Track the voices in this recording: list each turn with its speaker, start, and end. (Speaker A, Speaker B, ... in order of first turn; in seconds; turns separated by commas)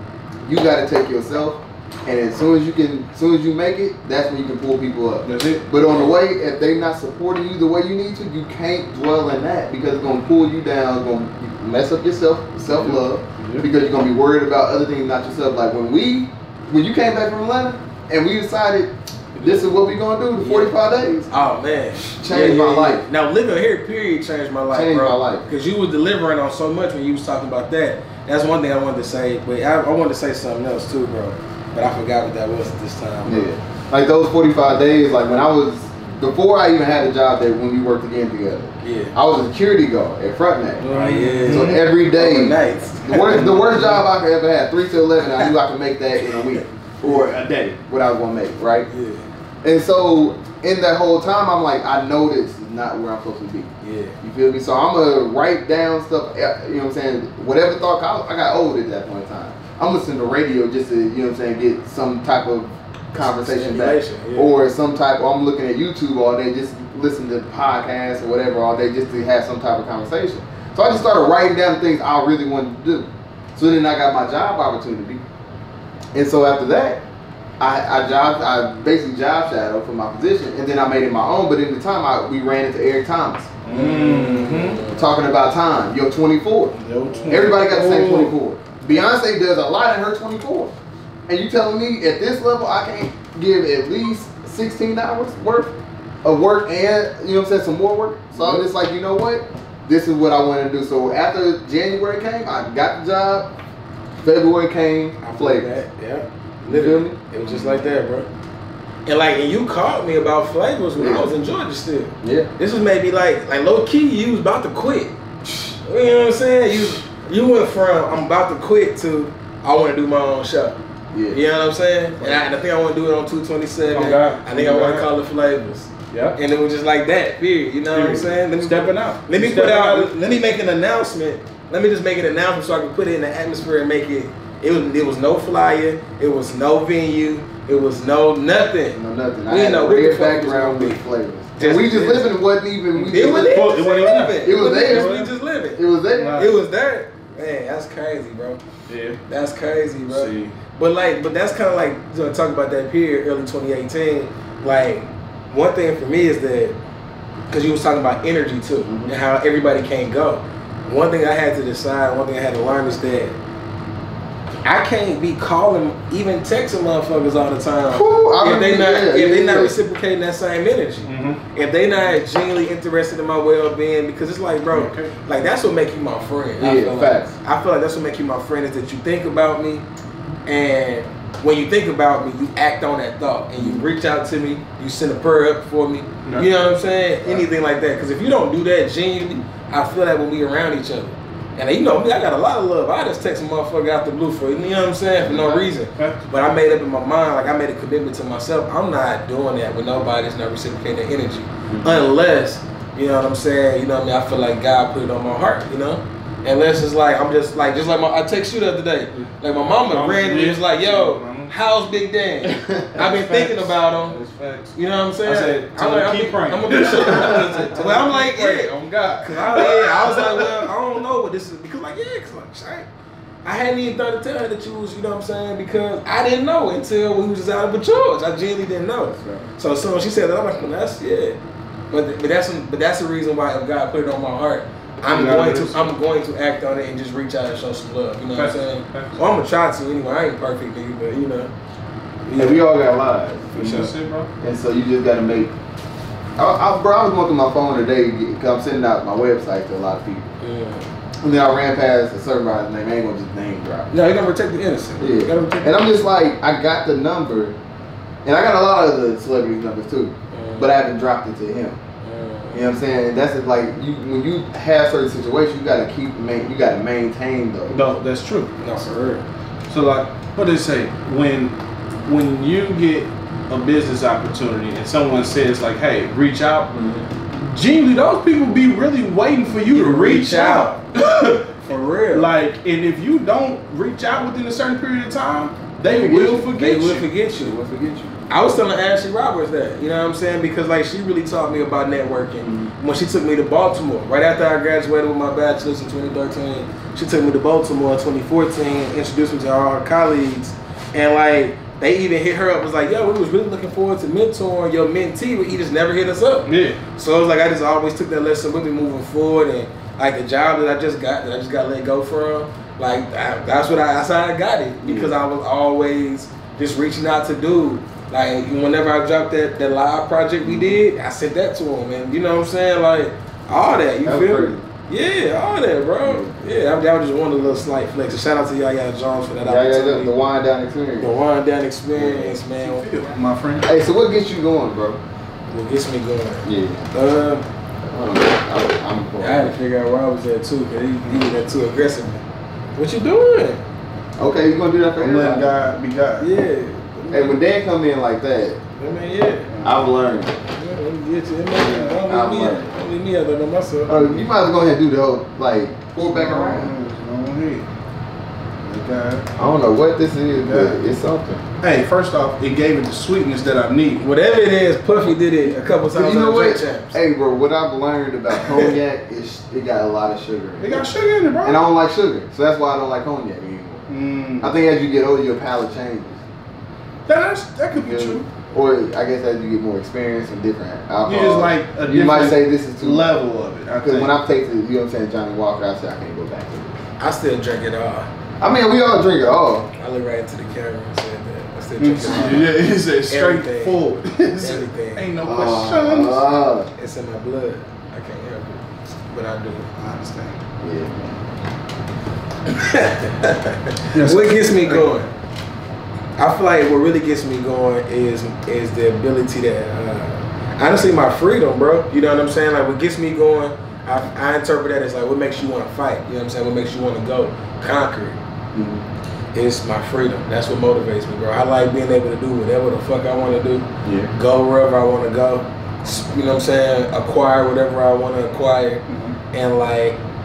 Speaker A: 0.4-21.3, Speaker B: 5.2-6.1, Speaker B: 12.6-13.7, Speaker C: 20.4-20.7, Speaker C: 21.3-33.5, Speaker A: 22.0-23.1, Speaker A: 24.7-25.5, Speaker A: 33.2-40.9, Speaker C: 38.8-39.2, Speaker C: 40.8-44.0, Speaker B: 40.9-41.8, Speaker A: 41.5-48.9, Speaker B: 43.2-43.9, Speaker C: 46.2-47.1, Speaker C: 48.9-49.3, Speaker A: 49.6-75.2, Speaker C: 53.8-54.2, Speaker C: 63.2-64.6, Speaker A: 76.1-77.0, Speaker A: 77.6-83.6, Speaker B: 83.7-84.8, Speaker C: 83.7-85.0, Speaker A: 84.9-90.8, Speaker B: 86.8-88.3, Speaker C: 87.0-87.5, Speaker A: 91.3-103.5, Speaker B: 98.3-98.6, Speaker A: 104.2-105.7, Speaker C: 105.2-108.3, Speaker A: 106.7-107.2, Speaker B: 107.4-107.9, Speaker C: 109.1-115.1, Speaker A: 111.0-111.3, Speaker A: 112.2-112.5, Speaker C: 115.8-120.8, Speaker A: 121.1-121.4, Speaker C: 121.3-139.0, Speaker B: 122.2-122.5, Speaker B: 123.9-125.1, Speaker B: 126.1-126.4, Speaker B: 127.9-130.7, Speaker A: 138.9-143.8, Speaker C: 139.5-141.0, Speaker C: 141.6-142.3, Speaker B: 143.0-145.3, Speaker C: 143.0-145.8, Speaker A: 144.4-145.1, Speaker A: 145.8-146.5, Speaker B: 146.1-146.6, Speaker C: 146.3-148.6, Speaker B: 148.9-149.2, Speaker C: 149.3-156.8, Speaker B: 150.1-150.6, Speaker C: 157.5-163.4, Speaker A: 158.9-159.1, Speaker C: 164.7-179.8, Speaker A: 167.9-169.8, Speaker B: 171.1-171.4, Speaker B: 174.7-175.2, Speaker A: 176.6-177.3, Speaker C: 180.5-214.2, Speaker A: 183.6-183.8, Speaker B: 186.2-186.5, Speaker A: 195.2-195.6, Speaker B: 195.4-196.3, Speaker A: 201.7-202.1, Speaker B: 209.1-211.5, Speaker A: 212.4-213.0, Speaker B: 213.0-220.7, Speaker C: 214.8-222.9, Speaker C: 223.4-231.4, Speaker A: 229.2-229.5, Speaker C: 231.9-241.5, Speaker B: 235.1-235.9, Speaker B: 238.3-239.2, Speaker C: 242.3-242.6, Speaker A: 242.3-245.5, Speaker B: 243.5-244.3, Speaker A: 246.4-250.3, Speaker C: 250.4-250.9, Speaker A: 251.2-253.9, Speaker C: 253.9-255.8, Speaker A: 255.0-257.6, Speaker A: 258.2-261.8, Speaker C: 260.3-260.8, Speaker C: 262.0-262.8, Speaker A: 262.5-267.8, Speaker B: 267.7-268.7, Speaker C: 268.6-269.2, Speaker B: 269.7-276.8, Speaker A: 276.7-277.1, Speaker B: 277.3-281.6, Speaker C: 279.7-280.8, Speaker C: 281.6-282.3, Speaker B: 282.1-287.1, Speaker A: 285.9-286.5, Speaker C: 286.0-287.6, Speaker A: 287.3-288.2, Speaker C: 288.3-330.1, Speaker A: 292.4-292.7, Speaker B: 306.5-306.8, Speaker A: 314.8-315.1, Speaker A: 320.4-320.8, Speaker A: 324.0-324.6, Speaker A: 326.0-326.4, Speaker A: 329.4-331.2, Speaker C: 331.0-332.9, Speaker B: 332.4-333.7, Speaker A: 333.6-335.0, Speaker C: 335.5-337.4, Speaker A: 336.4-336.9, Speaker A: 337.8-339.6, Speaker C: 339.2-342.2, Speaker B: 341.1-341.3, Speaker C: 342.8-343.6, Speaker A: 344.2-345.5, Speaker B: 345.0-346.3, Speaker C: 346.2-347.4, Speaker A: 347.1-348.6, Speaker C: 348.8-349.5, Speaker B: 349.5-349.8, Speaker A: 349.6-350.5, Speaker C: 350.5-354.2, Speaker B: 351.5-352.0, Speaker A: 352.1-352.7, Speaker A: 353.9-356.7, Speaker B: 356.0-357.7, Speaker B: 358.6-359.4, Speaker A: 359.4-361.4, Speaker B: 360.3-360.8, Speaker B: 361.6-364.1, Speaker C: 364.0-367.0, Speaker A: 365.9-370.9, Speaker C: 368.4-368.7, Speaker B: 370.6-371.6, Speaker A: 371.4-373.9, Speaker B: 373.9-374.5, Speaker A: 374.4-376.2, Speaker B: 377.1-378.3, Speaker A: 377.8-383.1, Speaker B: 381.1-384.1, Speaker A: 383.8-386.8, Speaker C: 387.0-388.1, Speaker A: 388.4-389.7, Speaker C: 389.8-392.6, Speaker B: 391.8-396.3, Speaker A: 392.1-392.4, Speaker C: 393.1-395.1, Speaker A: 395.2-396.7, Speaker C: 396.8-399.7, Speaker B: 399.8-400.4, Speaker A: 400.6-401.1, Speaker C: 402.5-405.1, Speaker B: 403.9-404.9, Speaker C: 406.2-418.2, Speaker A: 418.5-418.9, Speaker C: 419.3-430.0, Speaker A: 423.8-424.1, Speaker B: 428.9-429.2